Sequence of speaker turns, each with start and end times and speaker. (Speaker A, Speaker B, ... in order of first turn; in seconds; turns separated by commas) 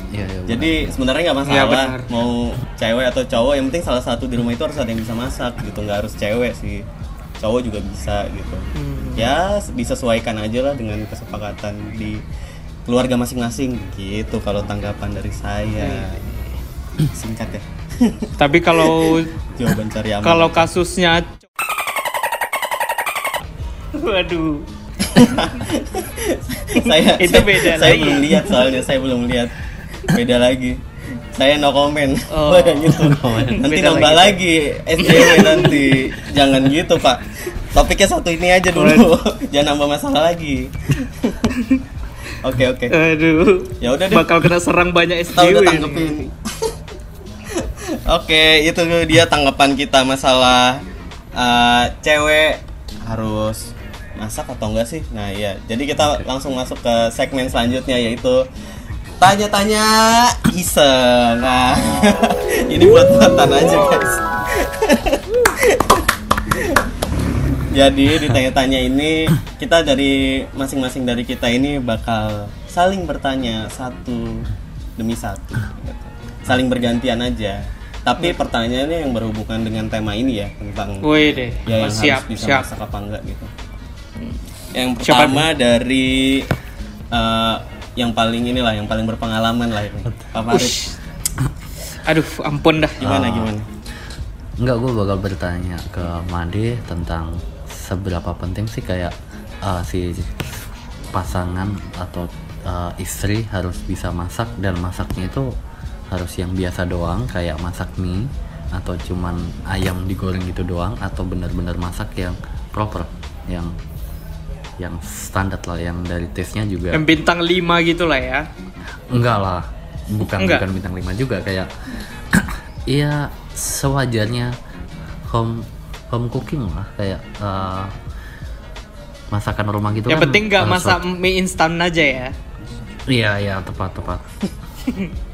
Speaker A: 0.1-0.9, Speaker B: 0.5-6.8, Speaker C: 1.4-2.1, Speaker B: 7.4-8.7, Speaker C: 8.8-9.3, Speaker B: 9.2-12.2, Speaker B: 12.9-16.3, Speaker C: 15.8-16.2, Speaker B: 17.1-20.7, Speaker C: 18.4-19.3, Speaker C: 20.2-21.4, Speaker C: 23.9-24.7, Speaker B: 25.1-29.5, Speaker C: 25.2-25.6, Speaker C: 26.8-28.9, Speaker B: 30.1-30.8, Speaker B: 31.3-41.5, Speaker C: 32.3-34.4, Speaker A: 33.0-33.6, Speaker C: 35.0-35.9, Speaker C: 38.8-39.1, Speaker C: 41.5-41.8, Speaker B: 42.4-42.9, Speaker C: 42.9-46.3, Speaker B: 43.8-44.3, Speaker B: 45.4-46.3, Speaker B: 47.6-50.8, Speaker B: 51.4-58.4, Speaker A: 56.0-56.2, Speaker B: 59.2-66.0, Speaker B: 67.7-74.5, Speaker B: 75.0-81.0, Speaker C: 81.0-82.7, Speaker B: 81.7-83.5, Speaker B: 84.7-86.5, Speaker C: 85.0-85.5, Speaker B: 87.1-90.8, Speaker C: 90.5-91.0, Speaker C: 92.0-93.1, Speaker B: 93.0-93.7, Speaker A: 93.0-93.5, Speaker A: 94.6-100.6, Speaker A: 101.1-105.5, Speaker A: 106.1-113.7, Speaker A: 114.8-117.0, Speaker C: 116.9-118.5, Speaker A: 119.1-121.7, Speaker C: 120.3-120.6, Speaker A: 122.3-124.5, Speaker A: 125.3-127.9, Speaker A: 129.3-131.0, Speaker C: 130.1-132.3, Speaker A: 133.1-134.2